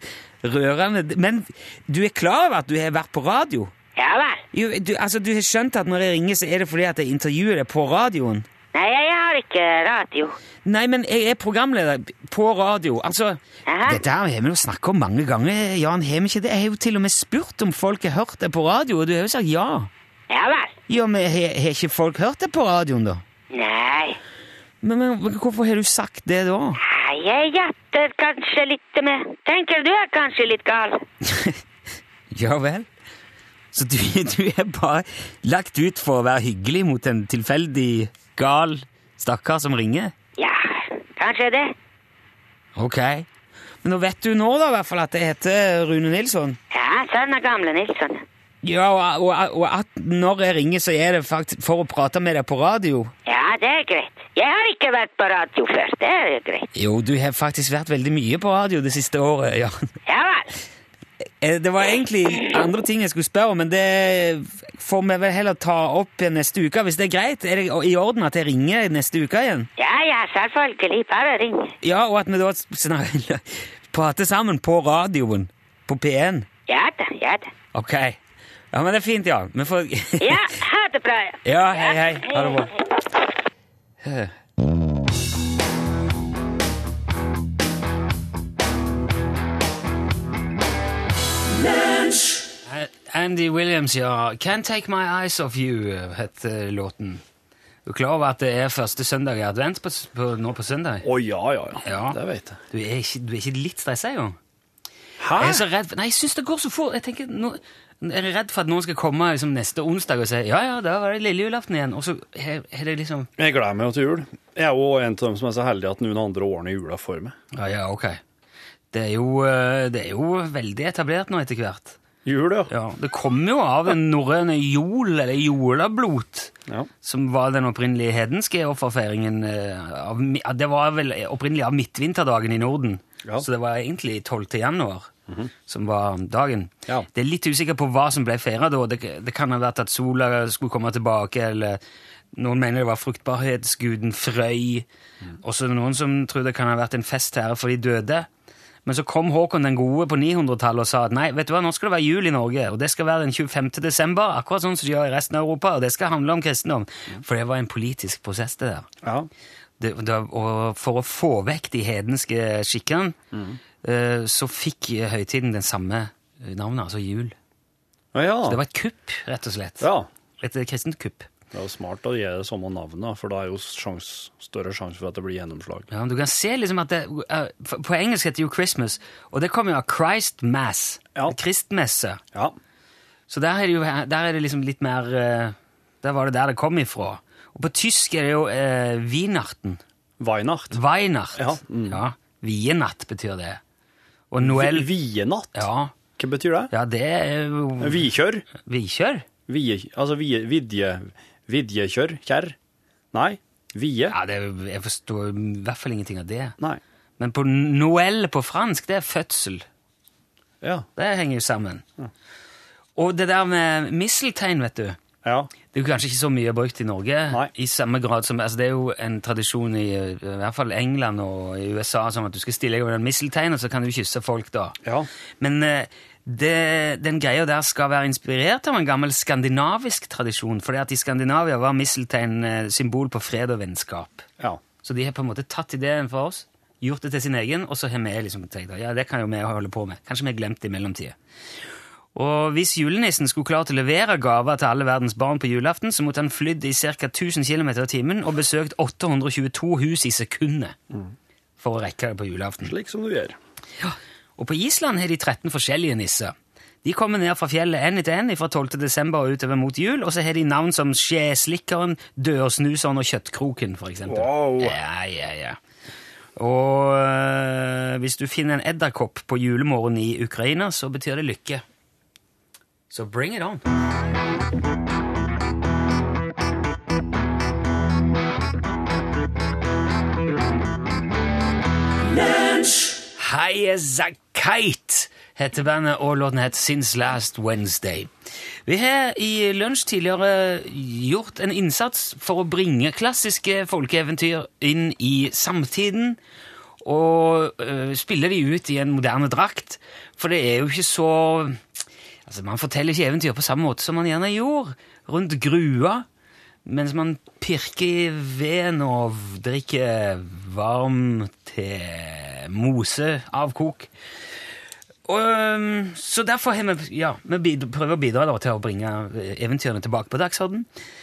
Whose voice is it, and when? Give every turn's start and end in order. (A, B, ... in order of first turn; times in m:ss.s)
0:00.4-0:03.7 A
0:04.0-0:04.4 B
0:04.5-0:08.5 A
0:08.7-0:10.4 B
0:10.7-0:19.9 A
0:13.7-0:14.0 B
0:20.3-0:20.7 B
0:20.9-0:23.2 A
0:23.5-0:24.2 B
0:24.8-0:26.8 A
0:26.8-0:31.0 B
0:31.2-0:31.6 A
0:32.3-0:32.9 A
0:33.7-0:40.1 A
0:40.4-0:41.7 B
0:42.8-0:43.3 A
0:43.8-0:46.6 A
0:46.7-0:48.2 B
0:48.6-0:53.1 A
0:53.3-0:56.7 B
0:56.8-0:59.8 A
1:00.1-1:00.5 B
1:01.4-1:09.7 A
1:09.8-1:11.7 B
1:11.8-1:16.5 A
1:16.7-1:17.5 B
1:17.7-1:18.2 A
1:18.7-1:20.5 A
1:20.2-1:22.7 B
1:21.4-1:22.7 A
1:24.0-1:24.3 A
1:32.7-1:37.2 A
1:37.9-1:41.1 A
1:41.0-1:42.6 C
1:41.8-1:42.2 A
1:42.7-1:44.4 A
1:45.2-1:45.6 C
1:45.4-1:53.3 A
1:53.4-1:57.4 C
1:57.5-1:58.2 A
1:58.9-2:02.0 A
2:02.2-2:02.7 C
2:02.7-2:15.1 A
2:15.7-2:21.8 A
2:22.3-2:24.9 A
2:25.4-2:28.3 A
2:28.8-2:38.9 A
2:39.0-2:39.3 C
2:39.8-2:43.2 A
2:43.3-2:43.6 C
2:43.8-2:47.4 A
2:48.1-2:48.6 C
2:48.5-2:49.9 A
2:49.8-2:50.1 C
2:50.4-2:51.3 A
2:51.5-2:55.9 C
2:55.9-3:02.2 A
3:03.3-3:09.8 A
3:10.2-3:10.8 C
3:10.7-3:13.6 A
3:11.4-3:12.0 C
3:14.3-3:14.9 A
3:14.4-3:15.7 C
3:15.5-3:15.9 A
3:16.2-3:16.7 C
3:16.7-3:19.3 A
3:17.8-3:18.4 C
3:19.5-3:22.6 C
3:23.1-3:24.2 C
3:24.1-3:26.6 A
3:27.2-3:29.7 A
3:30.6-3:30.9 C
3:31.0-3:31.8 A
3:33.0-3:35.0 A
3:35.2-3:35.5 C
3:35.7-3:44.8 A
3:45.4-3:54.3 A
3:54.8-4:01.2 A
4:02.2-4:10.8 A
4:11.6-4:12.7 A
4:12.6-4:13.4 C
4:13.8-4:25.6 A
4:24.1-4:24.8 C
4:26.4-4:31.6 A
4:32.9-4:33.6 A
4:42.3-4:48.1 A
4:48.7-4:56.2 A
4:56.8-5:01.6 A
5:02.3-5:06.0 A
5:06.6-5:13.9 A
5:15.1-5:20.7 A